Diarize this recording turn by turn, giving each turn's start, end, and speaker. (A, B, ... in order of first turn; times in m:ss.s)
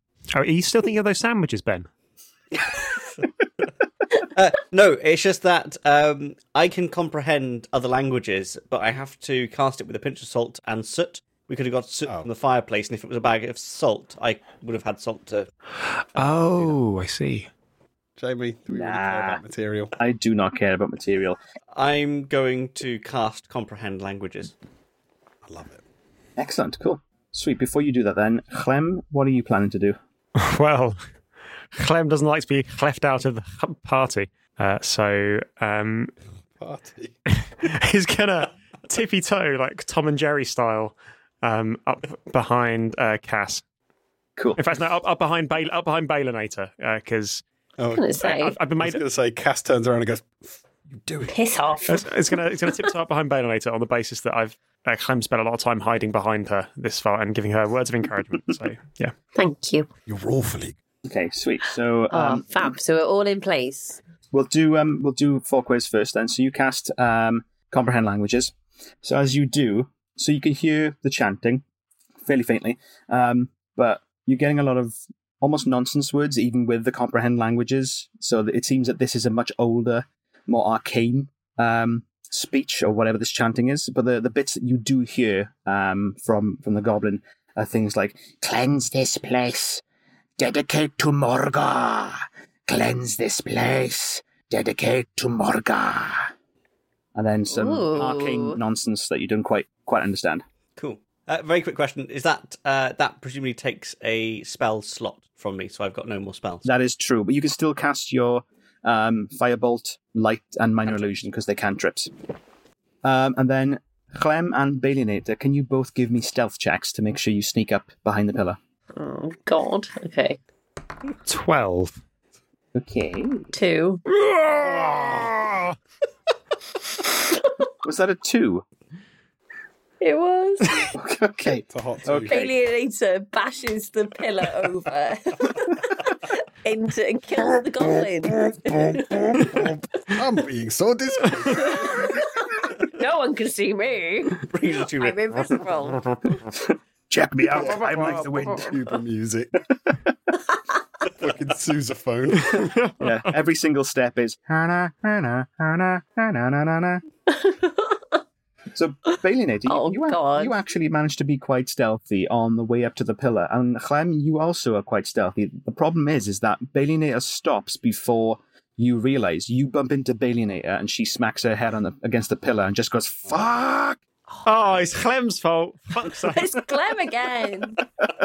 0:00.3-0:01.9 A
0:04.2-0:15.5 B
0:16.0-0:17.5 A
0:18.2-0:20.0 C
0:18.7-0:19.4 D
0:20.0-0:21.4 D
0:21.7-0:24.6 B
0:25.4-0:25.8 C
0:26.4-0:30.0 D
0:30.4-0:31.0 A
0:31.7-0:36.1 A
0:36.6-0:37.2 C
0:37.4-0:43.6 A
0:44.6-0:47.4 A
0:47.8-0:52.0 C
0:48.0-0:48.5 E
0:48.2-0:49.0 A
0:51.3-0:52.0 E
0:51.9-0:59.1 A
0:59.4-0:59.9 E
1:00.1-1:00.8 C
1:01.0-1:02.7 D
1:02.1-1:04.0 E
1:04.3-1:11.6 D
1:12.3-1:29.8 D
1:30.4-1:36.3 D
1:37.2-1:40.4 D
1:37.5-1:38.6 E
1:40.8-1:46.7 B
1:46.6-1:52.1 D
1:53.0-1:58.6 D
1:59.0-2:00.4 E
2:01.3-2:02.0 A
2:02.7-2:03.5 D
2:03.5-2:04.0 E
2:04.2-2:05.7 A
2:07.8-2:08.6 D
2:10.0-2:10.9 E
2:10.9-2:12.5 D
2:11.7-2:12.4 C
2:12.3-2:19.7 E
2:17.8-2:22.2 C
2:21.5-2:24.5 E
2:24.4-2:25.4 B
2:25.0-2:26.2 E
2:26.4-2:28.7 D
2:27.5-2:29.6 C
2:31.1-2:32.9 C
2:32.6-2:33.0 A
2:33.0-2:37.0 D
2:37.3-2:38.2 E
2:38.7-2:54.0 D
2:39.7-2:40.6 E
2:54.4-2:56.5 A
2:56.3-2:57.8 E